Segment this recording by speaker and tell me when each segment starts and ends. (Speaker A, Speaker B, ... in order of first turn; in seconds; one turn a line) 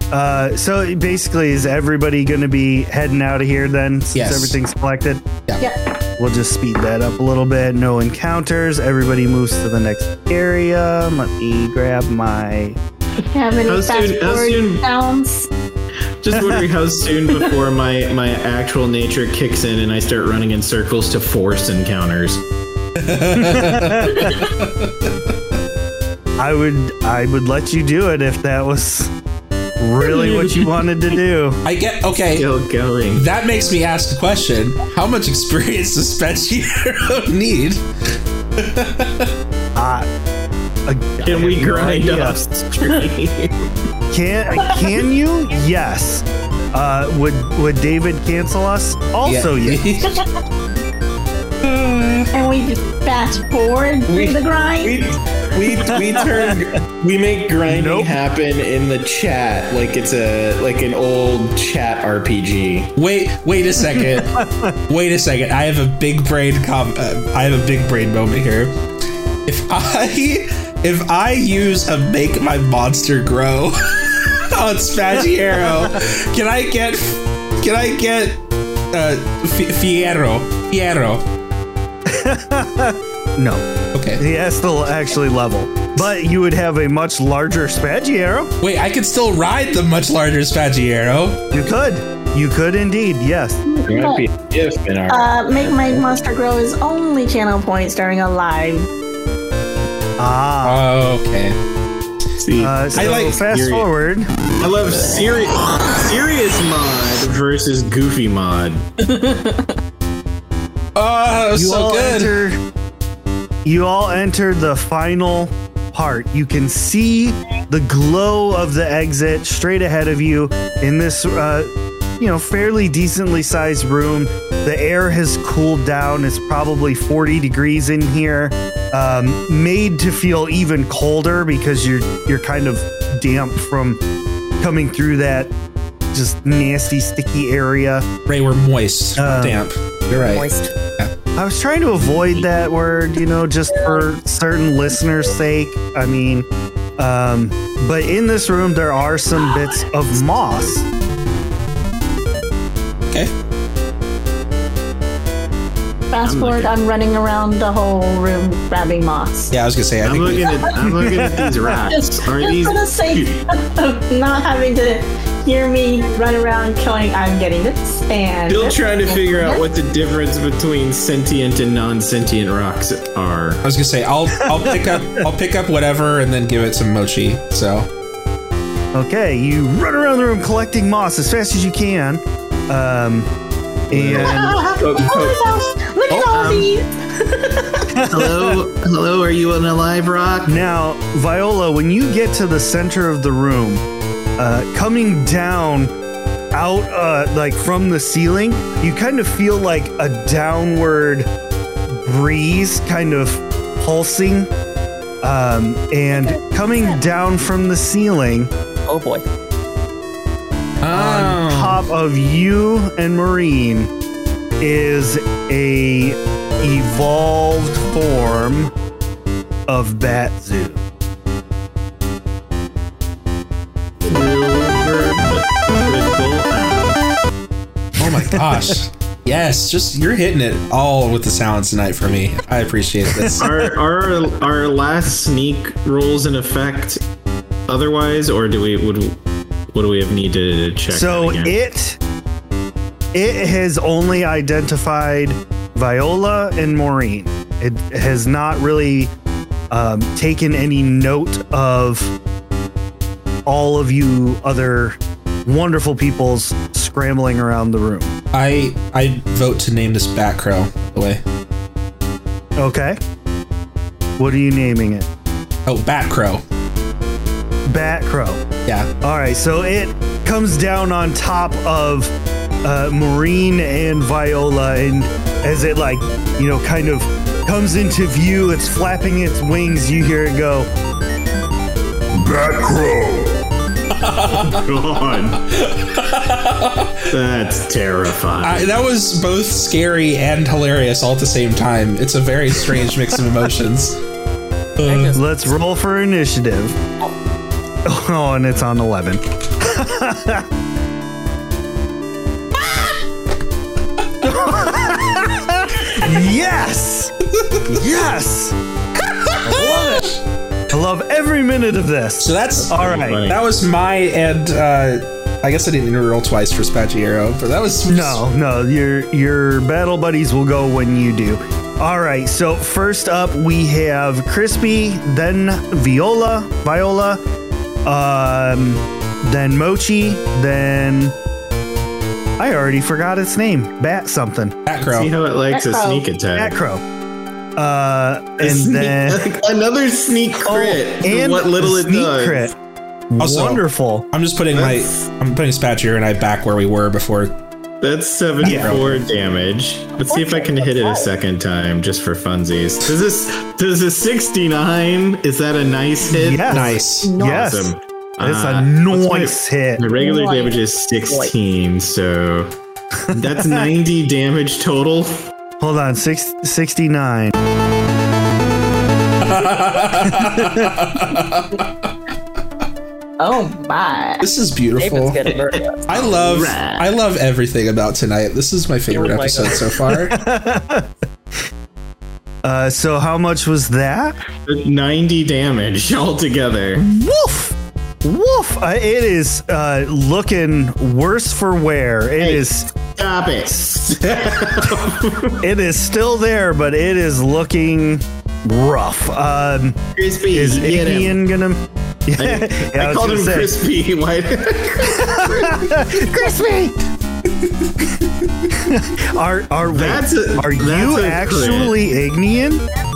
Speaker A: 0.1-5.2
Speaker B: 4.1-4.6
Speaker A: 6.2-12.8
Speaker C: 13.3-15.5
Speaker D: 13.6-14.8
Speaker D: 16.2-22.4
Speaker B: 23.0-25.3
Speaker A: 23.4-24.4
Speaker A: 26.4-29.1
Speaker A: 29.8-31.6
Speaker D: 30.0-30.9
Speaker B: 31.6-32.5
Speaker D: 32.4-33.3
Speaker B: 33.1-37.8
Speaker B: 38.6-39.3
Speaker A: 39.8-40.1
Speaker A: 40.9-42.4
Speaker D: 41.2-43.5
Speaker A: 44.1-49.8
Speaker B: 49.2-50.2
Speaker B: 51.6-52.3
Speaker C: 52.3-55.0
Speaker D: 54.1-62.9
Speaker A: 56.1-56.6
Speaker A: 57.7-58.2
Speaker B: 63.0-68.7
Speaker A: 64.1-64.8
Speaker B: 69.5-78.4
Speaker B: 78.9-81.2
Speaker A: 82.1-83.7
Speaker B: 83.9-84.2
Speaker A: 84.2-88.5
Speaker B: 88.6-91.4
Speaker A: 91.5-93.6
Speaker C: 93.7-94.2
Speaker D: 93.9-96.2
Speaker C: 95.1-98.9
Speaker A: 100.2-100.8
Speaker B: 100.6-101.6
Speaker D: 102.4-103.9
Speaker A: 102.6-104.3
Speaker B: 103.0-103.4
Speaker D: 104.6-108.9
Speaker C: 109.0-109.7
Speaker B: 111.0-112.4
Speaker A: 111.5-112.6
Speaker A: 113.6-134.0
Speaker A: 134.6-135.5
Speaker A: 136.1-138.1
Speaker B: 138.3-140.5
Speaker A: 139.2-139.6
Speaker E: 140.1-140.7
Speaker A: 141.4-146.5
Speaker E: 143.7-144.1
Speaker A: 147.0-150.9
Speaker C: 156.1-159.6
Speaker D: 156.2-156.7
Speaker B: 159.5-160.6
Speaker D: 160.0-163.4
Speaker A: 161.0-161.8
Speaker C: 161.9-169.6
Speaker D: 168.5-173.6
Speaker B: 173.6-177.9
Speaker A: 174.4-175.3
Speaker A: 178.9-183.3
Speaker A: 183.9-184.6
Speaker D: 183.9-185.4
Speaker C: 184.3-187.9
Speaker B: 186.1-186.4
Speaker D: 186.3-186.7
Speaker A: 187.9-188.6
Speaker D: 188.1-190.7
Speaker A: 190.4-193.8
Speaker A: 194.4-195.9
Speaker A: 196.5-201.3
Speaker A: 201.9-204.5
Speaker A: 205.2-208.5
Speaker E: 206.1-207.0
Speaker E: 208.9-209.2
Speaker B: 210.8-211.8
Speaker A: 210.9-213.9
Speaker A: 214.6-218.7
Speaker A: 219.7-220.8
Speaker D: 224.0-227.0
Speaker B: 228.0-233.5
Speaker D: 233.4-237.0
Speaker D: 237.7-239.2
Speaker D: 239.7-241.6
Speaker A: 240.9-242.0
Speaker A: 243.1-249.1
Speaker A: 249.7-252.2
Speaker A: 253.5-258.1
Speaker B: 258.3-261.2
Speaker A: 262.6-263.0
Speaker A: 264.2-265.1
Speaker B: 265.7-266.4
Speaker A: 267.7-268.4
Speaker A: 269.0-280.7
Speaker D: 282.3-282.6
Speaker A: 282.6-283.2
Speaker B: 283.9-284.7
Speaker D: 284.4-285.4
Speaker B: 285.5-287.1
Speaker D: 287.1-288.7
Speaker B: 288.4-294.0
Speaker B: 294.8-295.2
Speaker E: 294.9-295.5
Speaker A: 295.1-296.8
Speaker A: 297.9-300.5
Speaker A: 304.2-307.1
Speaker A: 307.7-308.6
Speaker B: 309.3-310.1
Speaker A: 309.4-310.1
Speaker A: 310.7-313.2
Speaker B: 312.2-318.2
Speaker D: 312.6-313.4
Speaker A: 317.9-327.2
Speaker A: 327.9-331.2
Speaker A: 332.4-334.6
Speaker B: 334.7-335.1
Speaker D: 334.8-336.6
Speaker C: 335.5-336.1
Speaker A: 336.4-336.8
Speaker A: 337.6-339.3
Speaker D: 338.4-342.5
Speaker A: 340.4-342.5
Speaker A: 343.1-344.1
Speaker B: 343.2-347.3
Speaker D: 344.5-345.1
Speaker D: 347.8-362.5
Speaker A: 348.4-348.8
Speaker B: 348.4-349.1
Speaker E: 350.1-351.1
Speaker A: 356.1-359.8
Speaker B: 356.5-357.2
Speaker C: 359.9-360.6
Speaker A: 363.1-363.7
Speaker D: 363.1-365.3
Speaker A: 365.6-367.3
Speaker B: 369.2-371.9
Speaker A: 370.1-370.7
Speaker C: 373.2-374.2
Speaker B: 374.2-375.2
Speaker E: 374.8-375.8
Speaker D: 375.3-376.9
Speaker B: 375.9-380.2
Speaker E: 378.9-379.6
Speaker A: 379.9-380.9
Speaker A: 382.4-384.2
Speaker D: 384.4-386.8
Speaker A: 386.8-392.7
Speaker D: 392.2-395.4
Speaker A: 395.4-399.8
Speaker D: 399.9-401.2
Speaker A: 400.3-403.5
Speaker D: 402.2-406.1
Speaker A: 404.8-406.8
Speaker A: 408.5-412.6
Speaker D: 409.7-411.8